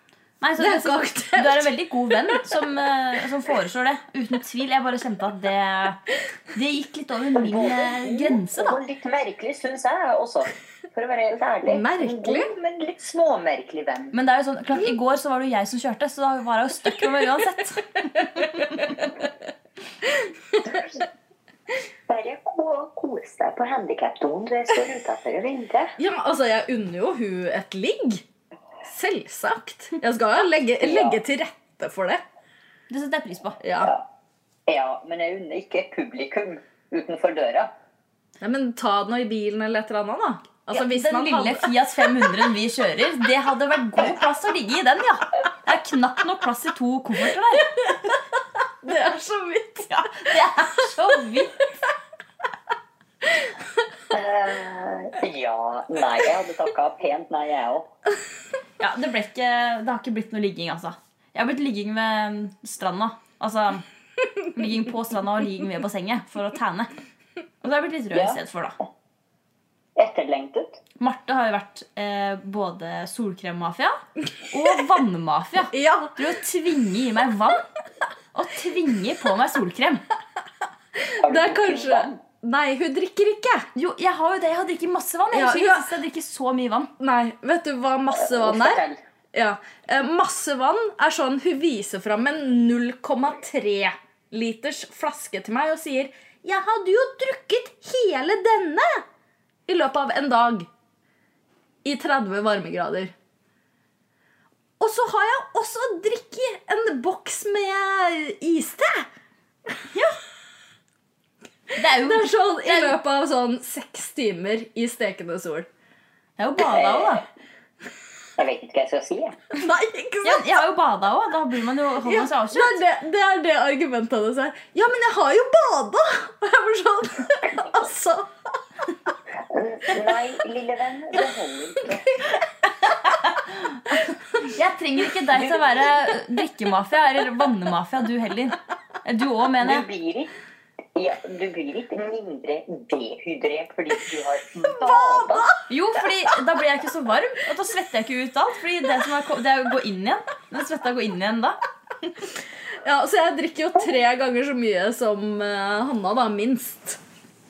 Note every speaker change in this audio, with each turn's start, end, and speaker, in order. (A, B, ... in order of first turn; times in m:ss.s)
0:00.4-0:06.0 A
0:00.6-0:01.7 B
0:06.5-0:08.8 A
0:07.3-0:14.1 C
0:11.7-0:12.5 B
0:14.1-0:18.0 A
0:22.1-0:25.9 C
0:26.0-0:28.2 B
0:28.8-0:32.2 B
0:30.8-0:31.2 C
0:32.9-0:33.6 A
0:33.6-0:33.9 B
0:34.7-0:37.7 C
0:38.4-0:41.7 B
0:40.7-0:47.7 A
0:48.8-0:50.3 B
0:49.9-0:51.5 A
0:54.1-0:57.9 C
0:58.8-1:03.8 A
1:04.5-1:06.9 A
1:07.6-1:08.8 A
1:08.1-1:08.4 C
1:10.0-1:10.8 C
1:11.0-1:14.0 A
1:14.5-1:17.6 A
1:15.7-1:16.2 B
1:18.3-1:20.0 A
1:21.2-1:22.2 C
1:21.2-1:23.6 B
1:23.7-1:26.9 A
1:25.3-1:25.9 B
1:27.0-1:28.8 B
1:28.1-1:29.0 C
1:29.3-1:39.0 B
1:39.7-1:40.7 B
1:41.8-1:43.1 B
1:44.8-1:49.1 B
1:51.8-1:53.0 A
1:52.0-1:55.7 B
1:56.4-1:57.2 A
1:56.6-1:57.2 C
1:58.4-1:59.4 C
1:59.5-2:00.4 B
2:00.2-2:02.8 A
2:02.0-2:08.3 B
2:09.4-2:12.1 C
2:14.5-2:19.9 A
2:19.6-2:20.3 C
2:20.9-2:25.6 C
2:25.7-2:31.6 A
2:32.8-2:37.0 B